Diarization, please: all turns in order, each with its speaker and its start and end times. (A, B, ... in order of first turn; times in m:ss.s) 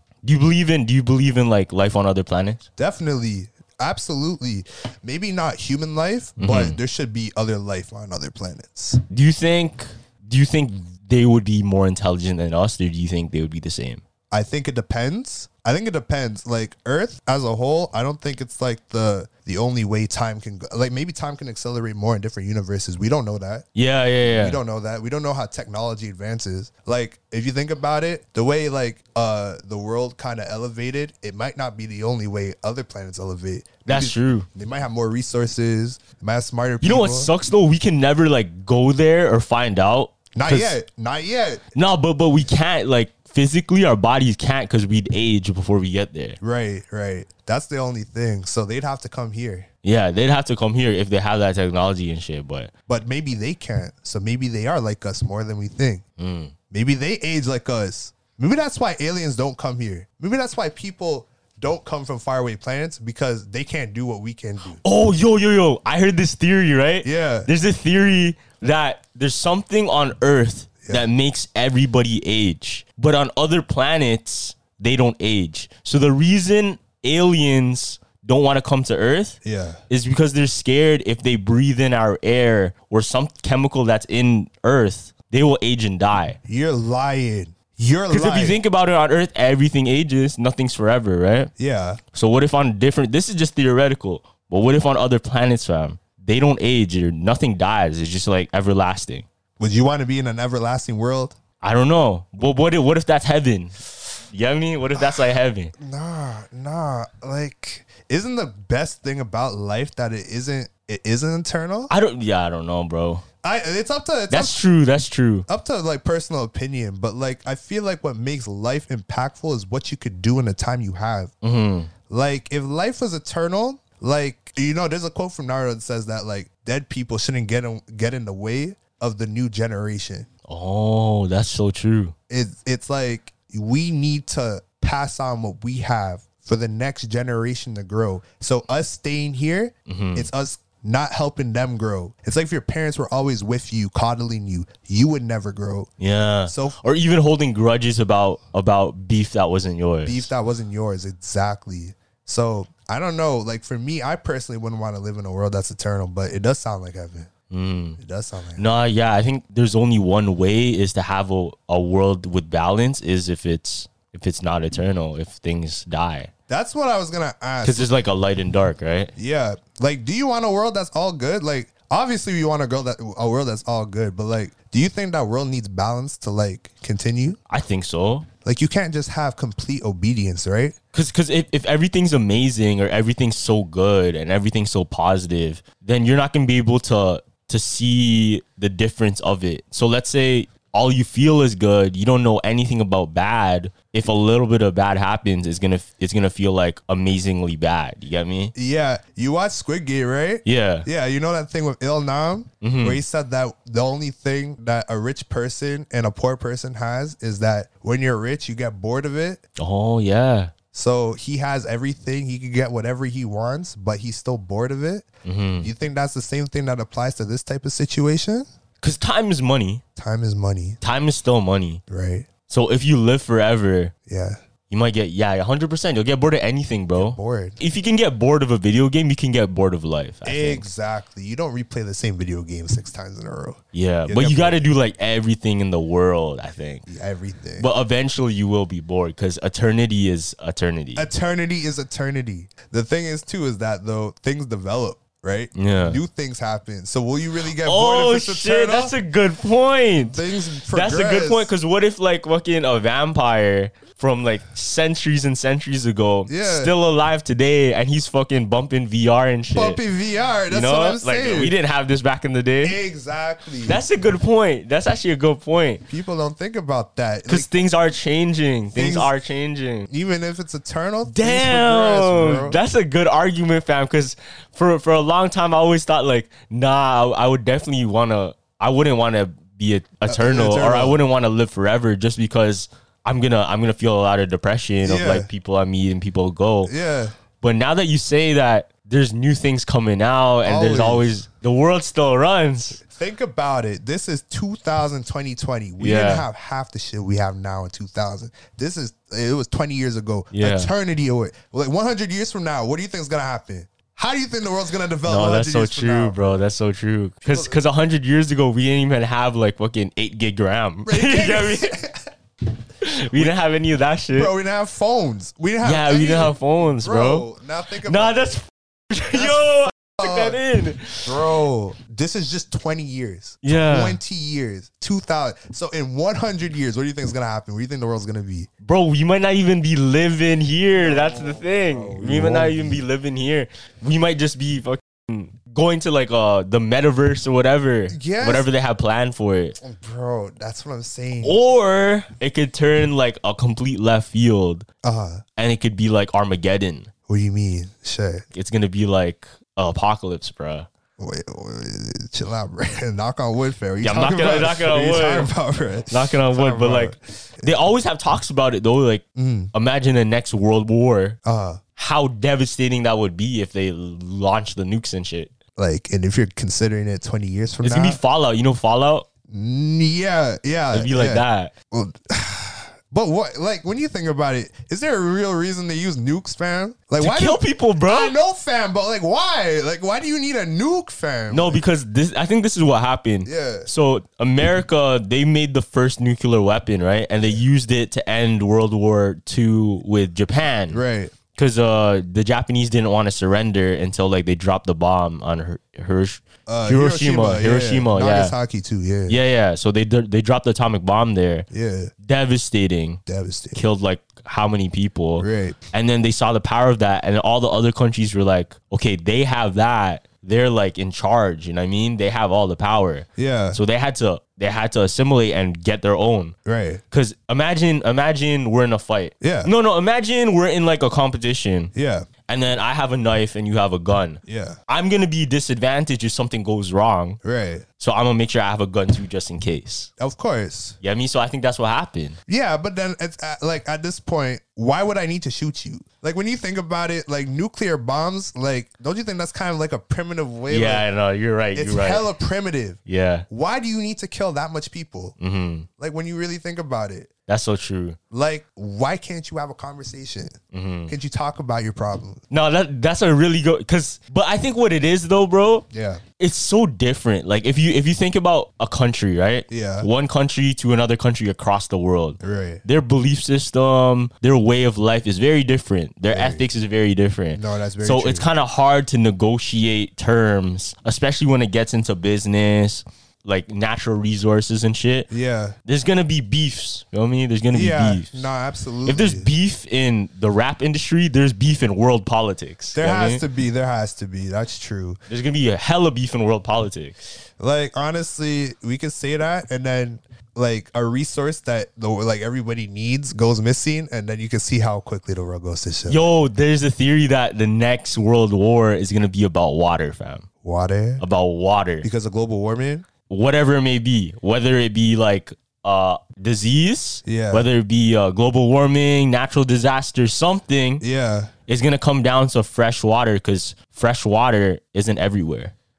0:00.2-0:02.6 A
0:02.8-0:09.0 B
0:06.4-0:06.8 A
0:09.1-0:14.0 A
0:14.3-0:23.6 B
0:23.8-0:24.6 A
0:24.3-0:37.3 B
0:33.8-0:34.5 A
0:36.8-0:40.8 A
0:40.3-0:41.6 B
0:41.7-0:46.4 A
0:46.4-0:49.7 B
0:49.8-0:52.7 A
0:52.9-0:56.0 B
0:56.2-0:56.5 A
0:56.7-1:04.8 B
1:04.8-1:19.4 A
1:07.0-1:07.5 B
1:19.4-1:19.8 B
1:19.9-1:26.4 A
1:26.4-1:28.6 B
1:28.1-1:31.5 A
1:31.6-1:32.0 B
1:32.1-1:39.2 A
1:39.6-1:41.4 B
1:41.6-1:43.8 A
1:44.3-1:45.7 A
1:45.8-1:51.9 B
1:51.9-1:53.2 A
1:53.4-1:54.6 B
1:54.3-1:55.5 A
1:55.5-2:01.3 B
2:01.4-2:01.9 A
2:02.1-2:10.3 B
2:10.5-2:12.1 A
2:12.3-2:25.9 B
2:19.9-2:20.3 A
2:26.0-2:30.3 A
2:26.5-2:26.8 B
2:30.0-2:37.3 B
2:37.5-2:38.0 A
2:38.0-2:38.7 B
2:38.6-2:46.3 A
2:46.5-2:47.9 B
2:47.6-2:49.1 A
2:49.2-2:57.4 B
2:57.5-2:58.3 A
2:58.4-3:00.8 B
3:00.9-3:18.5 A
3:18.5-3:29.4 B
3:20.4-3:20.9 A
3:22.6-3:23.0 A
3:29.6-3:30.5 A
3:30.7-3:35.1 B
3:35.2-3:35.7 A
3:35.6-3:38.5 B
3:38.8-3:39.8 A
3:40.0-3:40.8 B
3:40.8-3:41.8 A
3:41.9-3:42.3 B
3:42.5-3:43.9 A
3:44.1-3:44.4 B
3:44.7-3:50.6 A
3:47.0-3:47.6 B
3:50.2-3:54.6 B
3:53.7-3:56.8 A
3:56.9-3:57.7 B
3:57.6-4:01.1 A
4:01.0-4:08.9 B
4:05.5-4:06.0 A
4:07.6-4:19.8 A
4:10.1-4:11.5 B
4:16.3-4:16.7 B
4:19.5-4:21.5 B
4:20.5-4:22.8 A
4:22.6-4:23.8 B
4:23.6-4:25.8 A
4:25.9-4:27.5 B
4:27.3-4:29.9 A
4:28.7-4:29.1 B
4:29.9-4:32.6 B
4:31.1-4:46.7 A
4:40.1-4:41.0 B
4:44.8-4:45.3 B
4:46.6-4:47.1 B
4:47.4-4:52.8 A
4:50.4-4:51.1 B
4:52.8-5:06.4 B
4:55.8-4:56.2 A
5:00.3-5:00.7 A
5:05.1-5:11.7 A
5:07.2-5:07.6 B
5:10.8-5:11.9 B
5:12.8-5:14.3 A
5:14.1-5:18.3 B
5:15.6-5:17.2 A
5:17.8-5:21.2 A
5:19.1-5:20.4 B
5:21.0-5:28.5 B
5:23.4-5:24.0 A
5:28.6-5:39.6 A
5:30.8-5:32.8 B
5:37.9-5:38.5 B
5:39.6-5:41.4 B
5:41.2-5:44.6 A
5:44.8-5:45.2 B
5:45.4-5:46.9 A
5:47.1-5:48.2 B
5:48.3-5:50.7 A
5:51.0-5:57.5 B
5:53.8-5:55.3 A
5:55.9-6:01.2 A
5:59.2-5:59.5 B
6:01.2-6:01.6 B
6:01.8-6:05.3 A
6:05.6-6:08.0 B
6:07.6-6:09.1 A
6:09.3-6:21.6 B
6:10.7-6:11.5 A
6:17.0-6:18.2 A
6:21.3-6:30.8 A
6:23.2-6:23.7 B
6:30.7-6:31.1 B
6:31.3-6:38.3 A
6:36.5-6:39.2 B
6:39.1-6:41.5 A
6:41.5-6:41.9 B
6:42.0-6:43.0 A
6:43.1-6:43.6 B
6:43.5-6:56.4 A
6:45.2-6:45.6 B
6:53.2-6:53.6 B
6:56.4-6:56.8 B
6:56.9-7:01.7 A
6:59.2-6:59.5 B
7:01.7-7:02.1 B
7:02.3-7:07.2 A
7:04.2-7:04.6 B
7:07.2-7:07.6 B
7:07.8-7:09.9 A
7:10.0-7:10.8 B
7:10.8-7:12.2 A
7:12.3-7:20.9 B
7:20.5-7:22.0 A
7:21.5-7:25.1 B
7:22.9-7:23.2 A
7:25.2-7:25.7 A
7:25.8-7:27.1 B
7:27.3-7:28.0 A
7:28.1-7:32.2 B
7:30.5-7:30.9 A
7:32.3-7:35.7 A
7:35.7-7:36.0 B
7:36.2-7:55.1 A
7:39.5-7:39.9 B
7:42.2-7:42.6 B
7:46.1-7:46.4 B
7:47.3-7:48.3 B
7:55.1-7:55.6 B
7:55.6-7:58.2 A
7:57.5-7:59.3 B
7:58.8-8:03.2 A
8:02.7-8:05.0 B
8:05.1-8:07.0 A
8:07.4-8:16.0 B
8:15.9-8:20.3 A
8:20.4-8:21.0 B
8:21.0-8:21.9 A
8:21.8-8:22.9 B
8:23.1-8:30.8 A
8:27.0-8:27.5 B
8:30.8-8:31.3 B
8:31.5-8:35.5 A